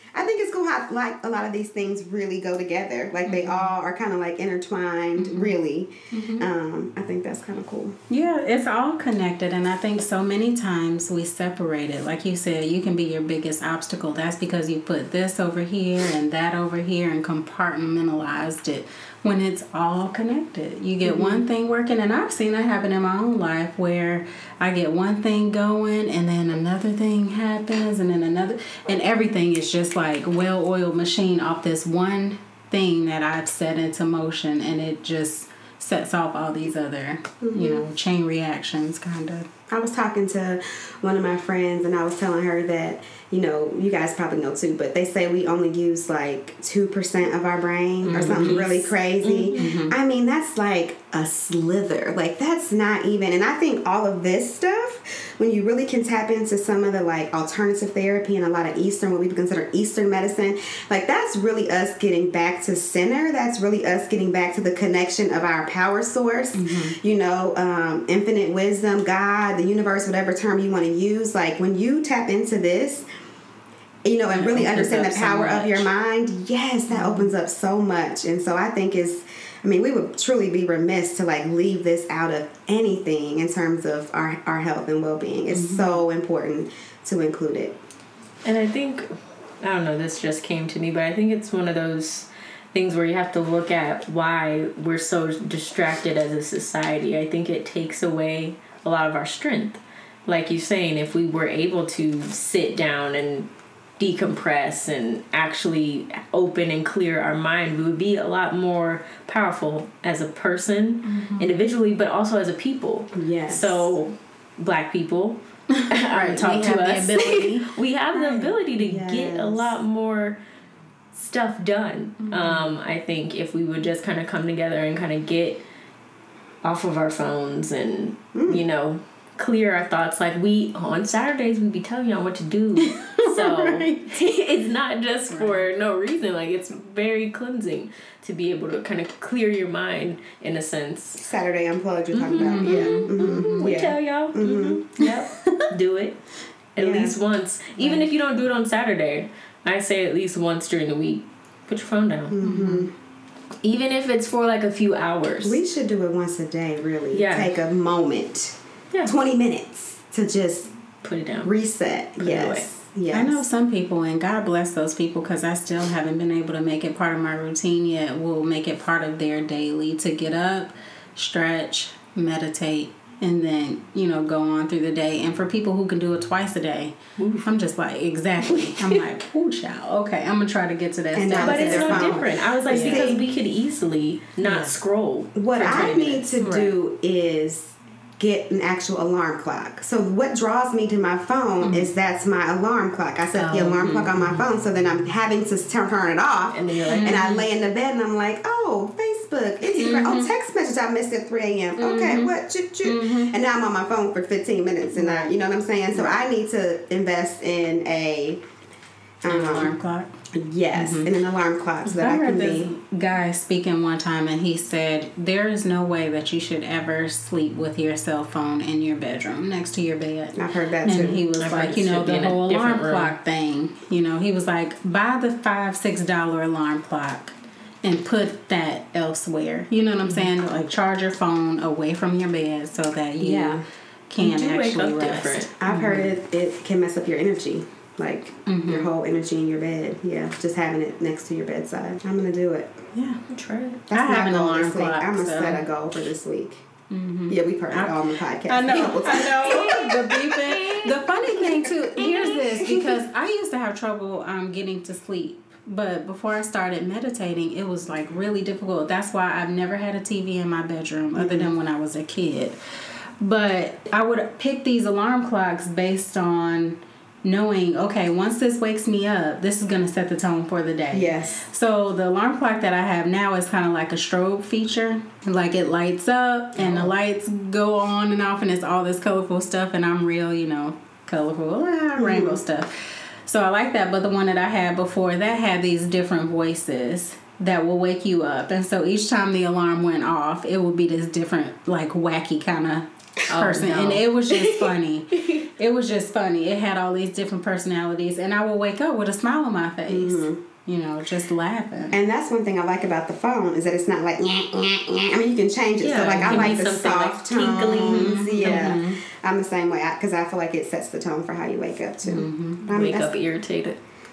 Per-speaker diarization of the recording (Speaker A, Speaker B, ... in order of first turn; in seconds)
Speaker A: 0.1-8.0, 21.1-21.4, 37.4-37.9, 39.7-73.1, 74.0-87.8, 113.1-114.0, 118.8-119.8, 128.3-128.6, 141.2-144.8, 146.8-147.2, 152.3-152.9, 155.4-160.7, 161.4-163.4, 181.1-183.2, 185.3-208.4, 209.2-209.8, 210.3-212.7, 220.3-221.2, 233.2-233.6, 235.6-242.7, 243.9-246.7, 247.3-250.0, 261.1-261.5, 270.9-271.4, 282.0-282.4, 299.9-300.4, 301.9-313.1
Speaker B: 3.2-3.7, 5.2-5.5, 6.1-6.5, 8.1-39.5, 48.0-48.9, 49.5-49.9, 66.5-67.0, 74.3-75.9, 76.9-77.3, 85.5-86.0, 111.0-111.5, 115.7-118.5, 122.2-122.7, 132.8-134.2, 135.3-135.7, 142.4-143.8, 145.0-145.7, 147.8-148.1, 152.4-152.9, 163.1-183.1, 184.4-184.7, 185.6-186.7, 191.6-191.9, 193.4-194.4, 196.9-197.4, 199.7-200.3, 201.8-203.3, 204.9-205.3, 209.2-210.1, 210.7-211.1, 211.9-236.1, 238.4-238.9, 242.9-243.2, 243.9-245.6, 246.9-262.6, 263.2-302.0, 307.4-309.0, 312.0-312.7
Speaker C: 48.2-48.7, 49.2-49.7, 88.4-89.1, 89.6-120.4, 121.1-125.6, 126.6-141.2, 142.1-146.2, 146.7-152.4, 153.6-155.6, 157.1-157.5, 161.0-161.5, 162.2-162.7, 177.2-177.5, 178.4-179.0, 181.4-186.1, 193.7-194.0, 196.5-197.3, 221.4-223.1, 234.2-235.5, 243.3-243.8, 249.2-251.0, 251.9-252.8, 293.3-294.7, 305.8-308.8, 312.7-313.8